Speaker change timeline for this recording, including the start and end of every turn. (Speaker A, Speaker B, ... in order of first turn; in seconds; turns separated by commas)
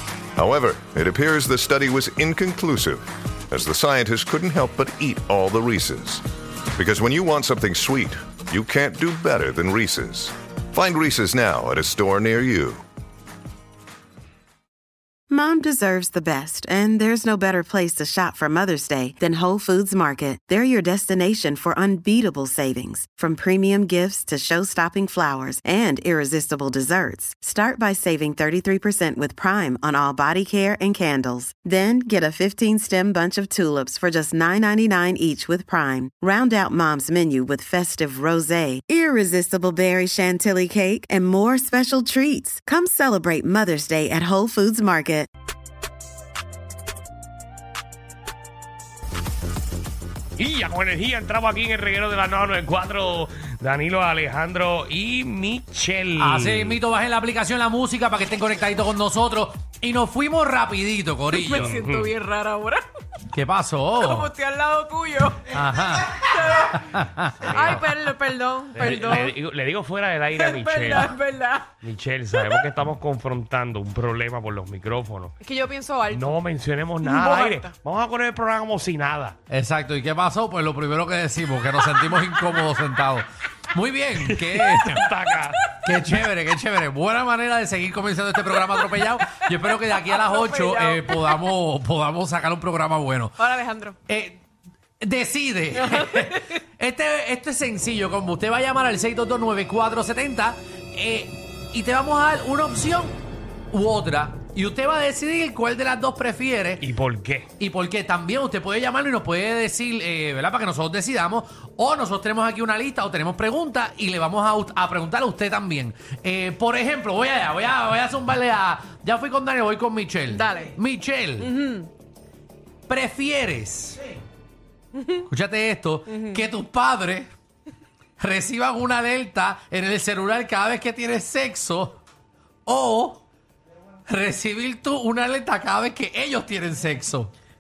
Speaker A: 0.4-6.2, Speaker A: 6.8-12.8, Speaker B: 15.3-45.3, Speaker C: 50.4-56.8, Speaker D: 56.2-61.8, Speaker E: 61.3-62.8, Speaker C: 61.5-62.1, Speaker D: 63.3-64.3, Speaker E: 64.0-65.6, Speaker D: 65.5-67.8, Speaker E: 66.1-66.9, Speaker C: 67.4-67.9, Speaker E: 67.4-69.3, Speaker C: 68.8-71.2, Speaker E: 70.3-71.7, Speaker C: 71.8-75.3, Speaker E: 72.3-72.6, Speaker E: 75.4-76.4, Speaker C: 76.1-79.4, Speaker E: 77.0-77.7, Speaker D: 79.5-85.0, Speaker C: 84.2-85.6, Speaker D: 85.8-93.4, Speaker E: 88.8-91.4, Speaker E: 93.4-94.0, Speaker D: 94.1-94.4, Speaker D: 95.0-103.1, Speaker E: 95.8-96.5, Speaker D: 103.7-106.9, Speaker C: 106.8-107.5, Speaker D: 107.6-121.6, Speaker E: 120.3-120.8, Speaker E: 121.4-121.9, Speaker D: 122.9-124.0, Speaker E: 125.0-125.3, Speaker D: 125.3-127.3, Speaker E: 126.1-126.5, Speaker D: 128.2-132.0, Speaker D: 132.7-133.2, Speaker D: 134.1-137.3